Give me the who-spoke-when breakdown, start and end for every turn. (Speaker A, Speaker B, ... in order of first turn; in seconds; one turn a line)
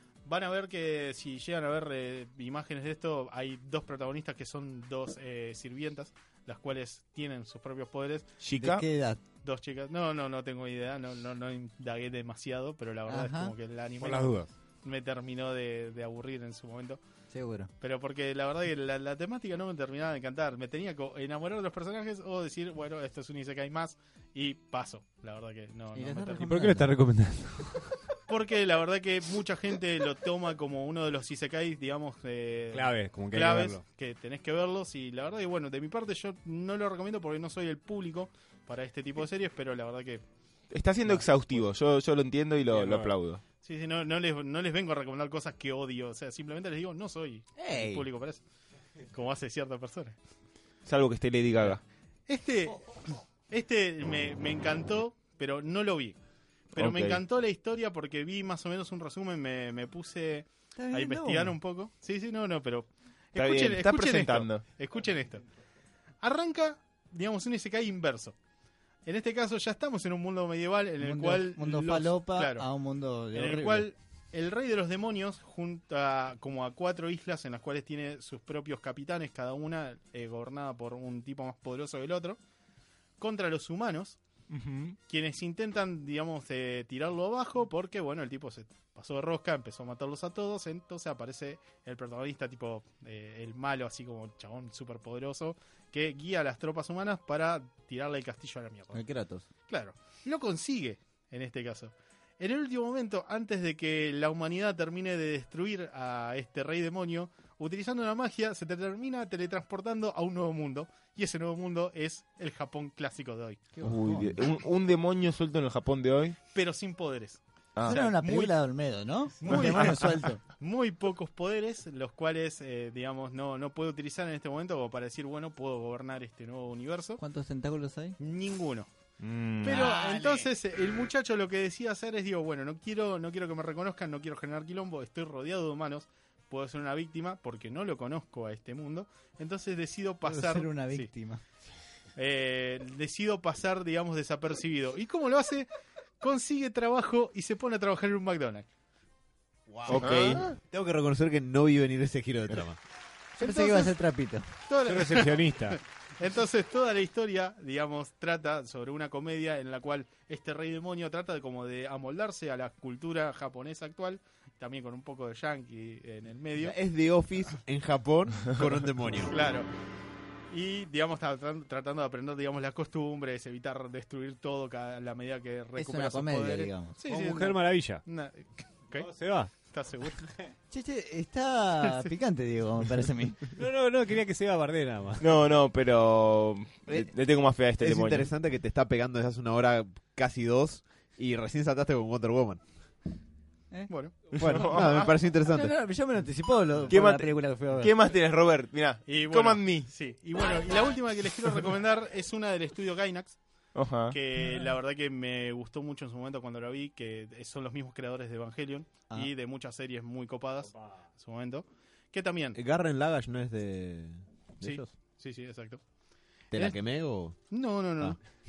Speaker A: 0.3-8.3
Speaker B: 8.4-8.8
Speaker C: 8.6-9.2
Speaker A: 9.4-17.0
Speaker C: 13.1-13.5
Speaker D: 14.0-14.5
Speaker C: 17.3-17.7
Speaker A: 17.8-26.5
Speaker C: 25.9-26.9
Speaker D: 26.4-28.0
Speaker A: 28.3-40.2
Speaker D: 32.7-33.8
Speaker B: 40.7-43.4
Speaker A: 41.0-41.6
Speaker D: 42.7-43.1
Speaker A: 43.6-48.4
Speaker C: 47.6-48.0
Speaker A: 49.1-50.2
Speaker B: 50.9-51.8
Speaker A: 52.3-52.9
Speaker A: 53.5-56.2
Speaker A: 56.7-65.4
Speaker B: 56.8-57.2
Speaker C: 60.8-61.5
Speaker B: 63.4-64.6
Speaker A: 66.2-68.3
Speaker A: 69.1-72.7
Speaker C: 71.0-73.9
Speaker A: 73.3-82.4
Speaker A: 83.2-84.2
Speaker B: 84.5-85.0
Speaker A: 85.1-99.0
Speaker C: 98.9-99.5
Speaker A: 99.7-113.7
Speaker C: 113.8-114.4
Speaker B: 113.8-116.4
Speaker A: 116.5-118.5
Speaker C: 117.8-120.4
Speaker A: 119.4-127.2
Speaker C: 127.2-128.2
Speaker A: 128.2-128.9
Speaker B: 129.2-129.9
Speaker A: 129.6-141.1
Speaker E: 129.7-130.5
Speaker C: 140.2-141.4
Speaker A: 142.2-145.7
Speaker A: 146.2-148.7
Speaker E: 149.7-152.8
Speaker B: 149.9-150.5
Speaker A: 149.9-150.4
Speaker A: 153.4-153.9
Speaker C: 153.4-154.5
Speaker A: 154.7-166.8
Speaker D: 154.9-155.8
Speaker E: 166.6-169.4
Speaker A: 169.3-169.7
Speaker A: 170.5-180.3
Speaker C: 175.8-177.0
Speaker D: 177.1-178.0
Speaker D: 179.0-179.5
Speaker C: 180.7-183.5
Speaker D: 183.6-185.3
Speaker B: 185.2-188.3
Speaker E: 187.8-192.6
Speaker A: 193.9-195.0
Speaker E: 194.3-195.8
Speaker B: 194.4-194.9
Speaker C: 195.5-197.9
Speaker B: 196.9-199.9
Speaker A: 199.1-203.4
Speaker B: 203.8-204.2
Speaker A: 204.1-212.6
Speaker E: 212.6-214.8
Speaker A: 214.6-215.8
Speaker E: 216.5-217.4
Speaker A: 217.5-218.2